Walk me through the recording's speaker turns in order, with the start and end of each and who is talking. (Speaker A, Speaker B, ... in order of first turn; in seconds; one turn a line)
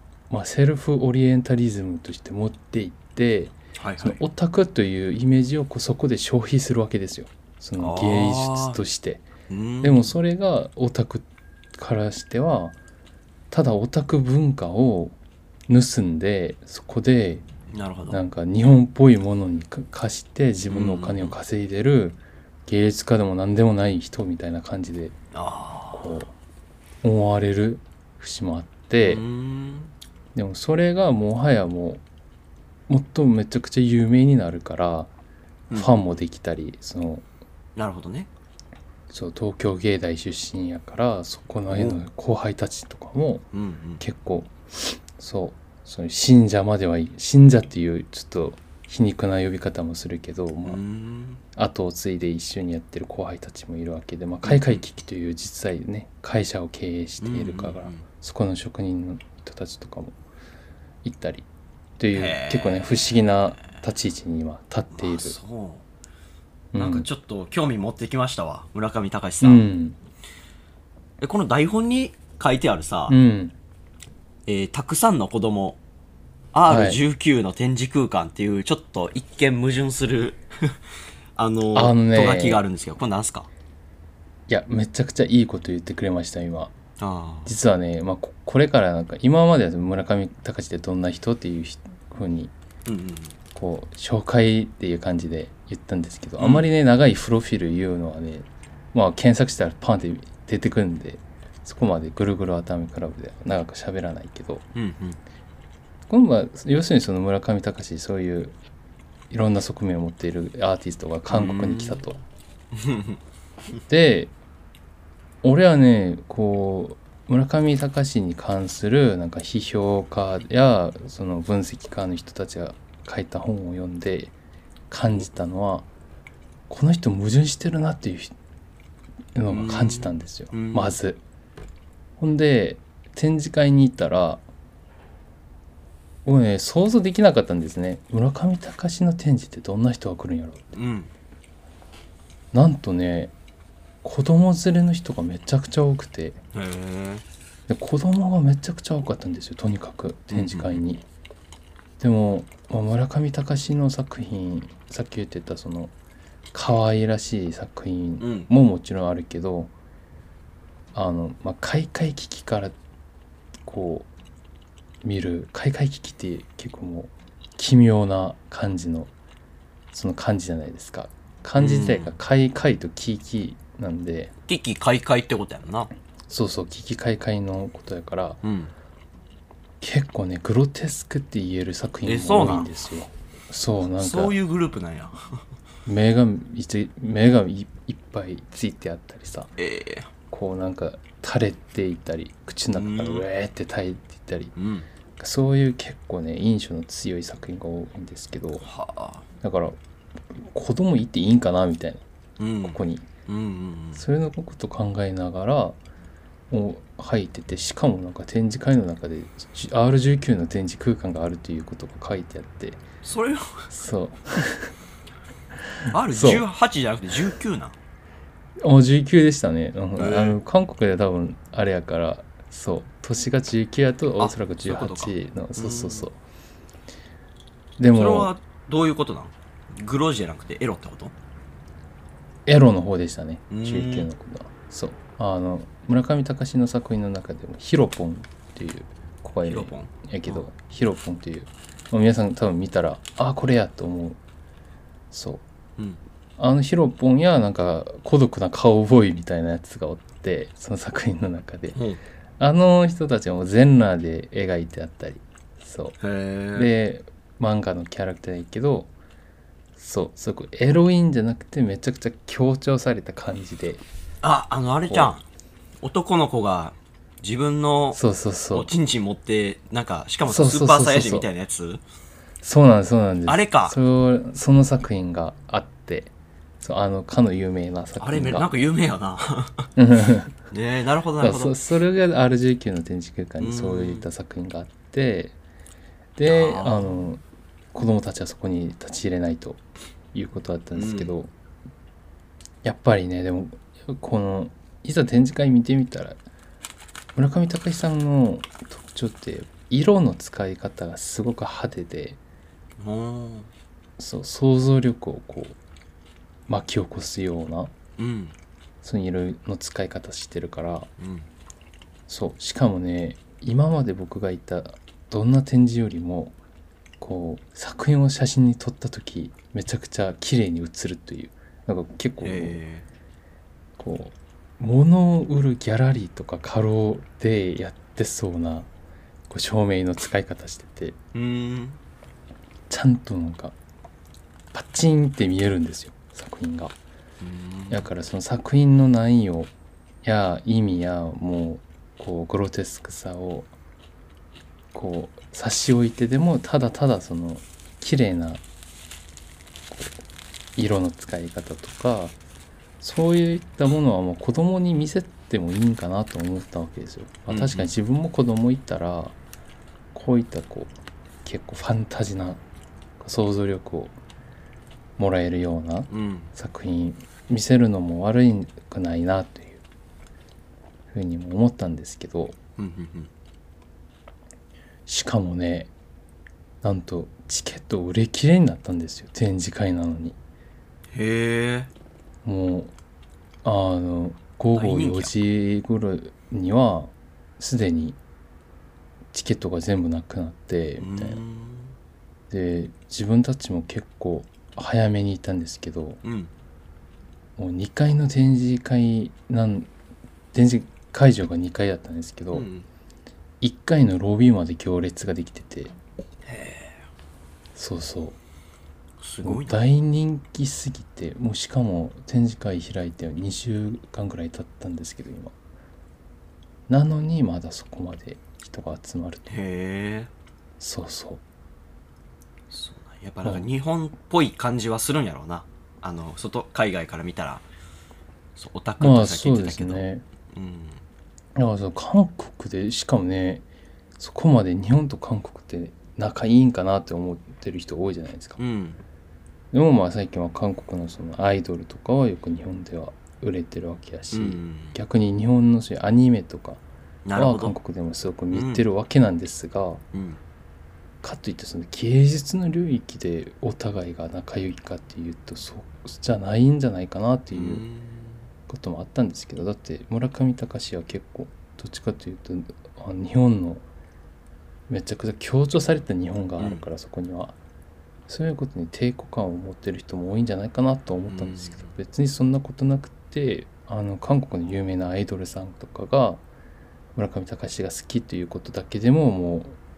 Speaker A: 0.3-9.3
Speaker B: 3.8-4.2
Speaker B: 7.8-8.8
Speaker B: 9.5-10.2
Speaker A: 9.8-12.8
Speaker A: 13.5-15.2
Speaker A: 15.7-17.4
Speaker B: 17.7-18.2
Speaker A: 18.1-25.1
Speaker B: 20.7-21.4
Speaker B: 25.3-26.3
Speaker A: 25.9-26.3
Speaker A: 27.0-29.2
Speaker B: 29.0-29.9
Speaker A: 30.4-32.0
Speaker A: 32.9-35.1
Speaker B: 35.7-36.2
Speaker A: 35.7-37.2
Speaker B: 37.8-38.3
Speaker A: 39.1-43.5
Speaker B: 41.7-42.0
Speaker B: 43.5-44.0
Speaker A: 44.0-50.8
Speaker B: 50.7-51.4
Speaker A: 51.5-60.2
Speaker B: 54.4-54.8
Speaker B: 57.2-58.1
Speaker A: 61.0-61.5
Speaker A: 62.0-65.4
Speaker B: 62.1-63.4
Speaker B: 64.9-65.8
Speaker A: 66.7-67.1
Speaker B: 66.8-69.7
Speaker A: 69.4-70.0
Speaker B: 71.2-73.2
Speaker A: 73.1-73.5
Speaker B: 74.5-75.8
Speaker B: 76.5-80.8
Speaker A: 76.7-77.0
Speaker B: 81.4-83.5
Speaker A: 81.7-82.6
Speaker A: 84.5-86.7
Speaker B: 87.0-87.5
Speaker A: 87.5-92.5
Speaker B: 92.9-93.4
Speaker A: 93.5-104.7
Speaker B: 96.4-96.7
Speaker B: 104.8-105.2
Speaker A: 106.1-108.6
Speaker A: 109.3-112.2
Speaker B: 111.3-112.1
Speaker B: 112.7-113.2
Speaker A: 113.9-114.3
Speaker A: 115.4-124.3
Speaker A: 124.9-125.9
Speaker A: 126.7-128.3
Speaker A: 129.3-131.2
Speaker B: 129.5-131.0
Speaker A: 132.2-134.4
Speaker A: 136.2-140.7
Speaker B: 140.7-141.1
Speaker A: 142.5-143.3
Speaker A: 144.0-146.4
Speaker B: 146.5-147.2
Speaker A: 147.7-151.0
Speaker B: 150.3-150.8
Speaker A: 152.0-155.9
Speaker A: 156.5-159.7
Speaker B: 158.2-158.5
Speaker A: 160.9-162.8
Speaker A: 163.6-164.1
Speaker A: 165.0-169.1
Speaker A: 169.9-174.3
Speaker B: 171.6-172.2
Speaker B: 174.5-175.9
Speaker A: 176.3-178.4
Speaker B: 178.4-178.7
Speaker A: 179.8-184.4
Speaker B: 182.1-182.7
Speaker B: 184.0-185.4
Speaker A: 185.9-189.5
Speaker B: 189.6-190.1
Speaker A: 190.3-194.5
Speaker B: 192.7-193.3
Speaker B: 194.6-194.9
Speaker A: 195.2-198.7
Speaker B: 198.6-199.3
Speaker A: 199.4-199.8
Speaker A: 200.3-202.0
Speaker B: 202.4-204.0
Speaker A: 202.7-203.1
Speaker A: 203.9-205.8
Speaker A: 206.5-212.8
Speaker B: 213.0-213.7
Speaker A: 213.7-214.7
Speaker B: 215.9-217.8
Speaker A: 216.1-216.4
Speaker A: 218.6-226.2
Speaker B: 220.0-220.4
Speaker B: 224.2-226.1
Speaker A: 227.8-228.3
Speaker B: 227.9-231.1
Speaker A: 232.5-244.2
Speaker B: 233.5-234.1
Speaker B: 239.5-240.5
Speaker A: 245.1-245.4
Speaker A: 246.4-251.8
Speaker B: 251.7-252.0
Speaker A: 252.4-256.0
Speaker B: 256.0-256.7
Speaker A: 256.6-258.9
Speaker A: 259.8-263.8
Speaker B: 264.2-265.2
Speaker B: 265.8-268.0
Speaker A: 267.9-268.7
Speaker B: 268.5-271.8
Speaker A: 270.3-271.3
Speaker A: 272.4-278.5
Speaker B: 273.3-273.8
Speaker B: 278.0-279.7
Speaker A: 279.8-280.4
Speaker B: 280.5-281.6
Speaker A: 281.2-285.4
Speaker B: 283.4-284.1
Speaker A: 286.2-287.2
Speaker B: 286.2-287.1
Speaker A: 287.7-289.6
Speaker A: 290.1-291.3
Speaker B: 290.7-291.1
Speaker A: 292.6-296.2
Speaker A: 297.2-302.2
Speaker B: 302.8-303.5
Speaker A: 304.0-305.6
Speaker A: 306.5-307.7
Speaker B: 308.0-308.4
Speaker A: 308.8-310.9
Speaker B: 311.0-311.3
Speaker A: 312.1-316.4
Speaker A: 317.0-322.6
Speaker B: 322.2-322.9
Speaker A: 323.8-328.7
Speaker A: 329.3-331.0
Speaker B: 331.1-331.8
Speaker A: 332.7-333.6
Speaker A: 334.5-336.8
Speaker B: 337.2-337.9
Speaker A: 337.7-339.5
Speaker A: 340.0-343.5
Speaker A: 344.7-348.4
Speaker A: 350.6-352.1
Speaker A: 352.8-359.2
Speaker B: 357.3-357.8
Speaker A: 359.9-360.7
Speaker A: 361.2-362.4
Speaker A: 363.0-364.0
Speaker A: 365.0-369.6
Speaker B: 365.9-366.3
Speaker A: 370.9-372.4
Speaker B: 372.6-373.1
Speaker A: 374.9-375.7
Speaker A: 376.6-380.2
Speaker B: 380.9-381.7
Speaker A: 382.2-382.7
Speaker A: 383.4-388.0
Speaker B: 384.5-385.1
Speaker A: 389.1-391.2
Speaker B: 390.8-391.8
Speaker A: 392.3-396.0
Speaker B: 396.0-396.3
Speaker A: 397.4-399.7
Speaker A: 400.3-402.5
Speaker B: 402.3-402.7
Speaker A: 403.4-405.7
Speaker B: 406.2-406.9
Speaker A: 407.6-408.2
Speaker B: 409.0-409.6
Speaker A: 409.2-415.3
Speaker A: 416.7-419.3
Speaker B: 419.3-420.1
Speaker A: 420.6-421.2
Speaker B: 422.5-427.4
Speaker B: 428.4-430.8
Speaker A: 428.8-430.0
Speaker A: 431.4-433.4
Speaker A: 434.0-438.4
Speaker B: 438.4-438.8
Speaker A: 439.5-446.6
Speaker B: 444.1-444.8
Speaker B: 447.1-447.6
Speaker A: 447.2-449.8
Speaker B: 448.3-448.6
Speaker B: 449.9-450.2
Speaker A: 451.0-457.6
Speaker B: 457.3-458.2
Speaker A: 458.5-463.6
Speaker A: 464.7-467.4
Speaker B: 466.4-466.7
Speaker A: 468.1-476.2
Speaker B: 471.1-471.7
Speaker A: 476.9-479.6